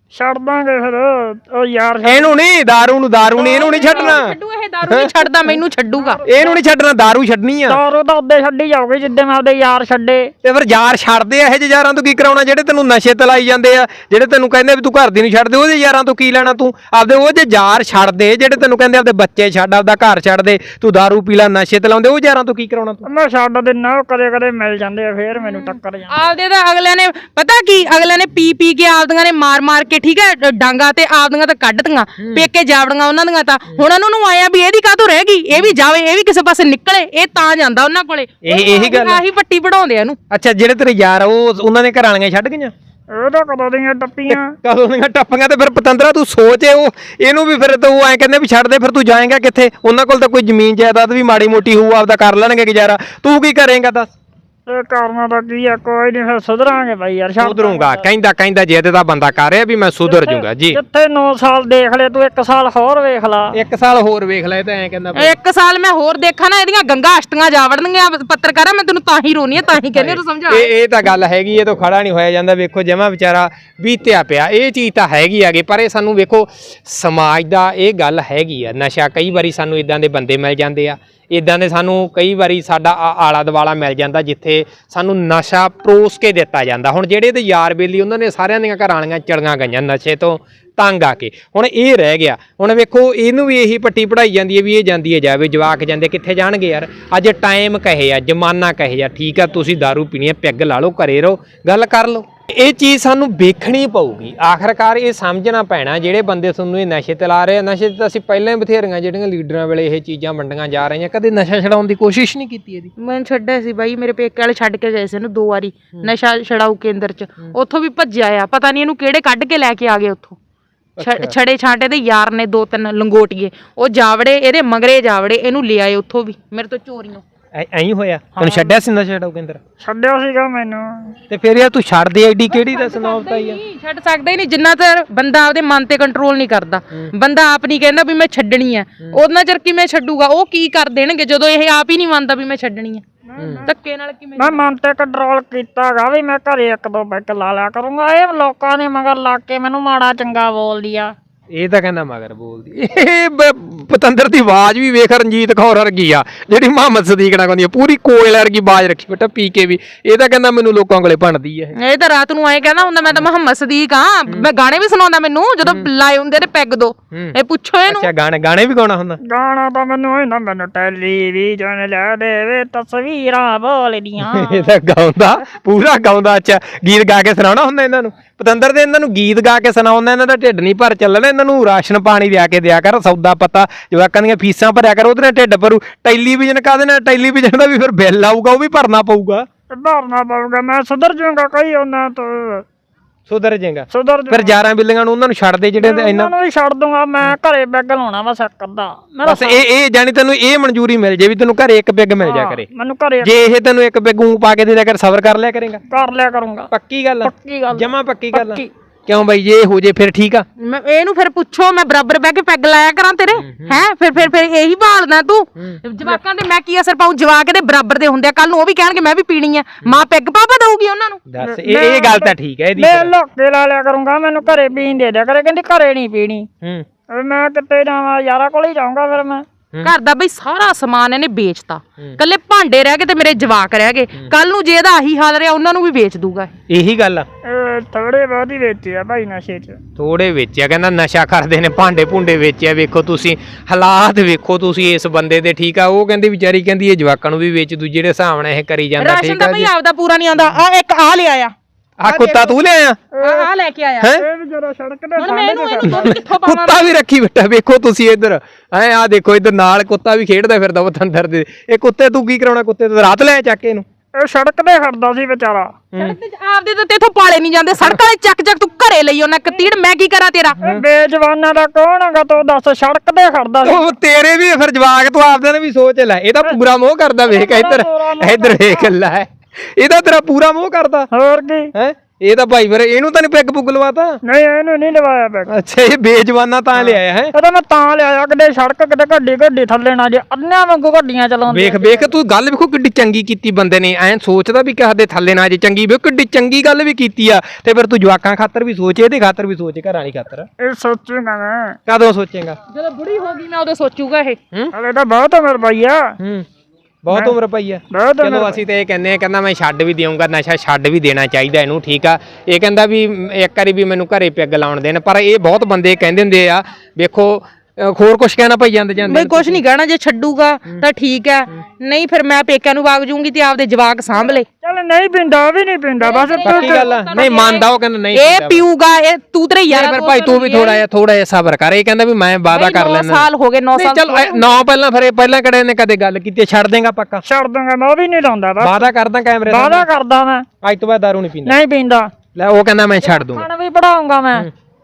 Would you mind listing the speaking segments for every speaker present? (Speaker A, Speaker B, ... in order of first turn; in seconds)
Speaker A: 0.1-2.3, 3.4-4.2, 6.0-6.6, 7.7-10.3, 23.1-26.2, 43.1-44.6, 54.7-58.1, 60.1-63.6, 128.4-128.7, 129.8-131.2, 143.3-143.7, 144.4-151.1, 169.2-174.8, 189.7-192.6, 193.9-194.5, 195.8-199.6, 202.2-203.3, 205.9-206.7, 207.2-208.7, 221.4-226.5, 227.1-229.5, 237.4-239.8, 252.1-252.5, 253.1-253.5, 254.2-256.2, 264.1-265.9, 270.6-273.8, 277.2-278.9, 281.1-281.7, 284.2-285.5, 286.8-292.1, 300.6-301.8, 304.7-306.1, 307.1-307.4, 307.9-308.6, 324.5-327.3, 337.2-338.9, 339.5-340.5, 341.5-342.1, 343.0-344.5
Speaker B: 2.0-5.6, 6.2-7.8, 10.4-23.0, 32.2-32.5, 38.4-39.2, 40.3-42.7, 44.3-54.1, 57.4-60.8, 63.5-65.3, 69.9-112.9, 121.0-121.3, 127.5-129.6, 131.3-133.6, 143.4-143.7, 151.5-161.8, 167.9-169.2, 174.2-189.5, 193.3-196.3, 199.2-202.7, 203.2-205.8, 206.7-210.4, 213.3-213.8, 221.3-223.1, 236.7-237.2, 240.0-249.7, 252.0-253.0, 255.8-263.9, 273.6-281.1, 281.7-284.2, 285.5-287.3, 291.5-300.5, 301.9-302.6, 306.2-306.5, 307.0-319.6, 326.4-328.6, 329.7-337.2, 338.6-339.9, 340.6-341.6, 342.3-343.5
Speaker C: 3.4-6.2, 25.5-40.2, 65.1-70.7, 113.0-120.4, 121.0-127.2, 132.5-143.0, 143.6-144.6, 161.8-168.1, 210.6-221.2, 229.8-236.5, 249.0-251.5, 253.2-254.2, 255.2-256.9, 266.0-270.6, 302.7-304.4, 319.0-324.5, 326.0-330.8, 332.5-334.5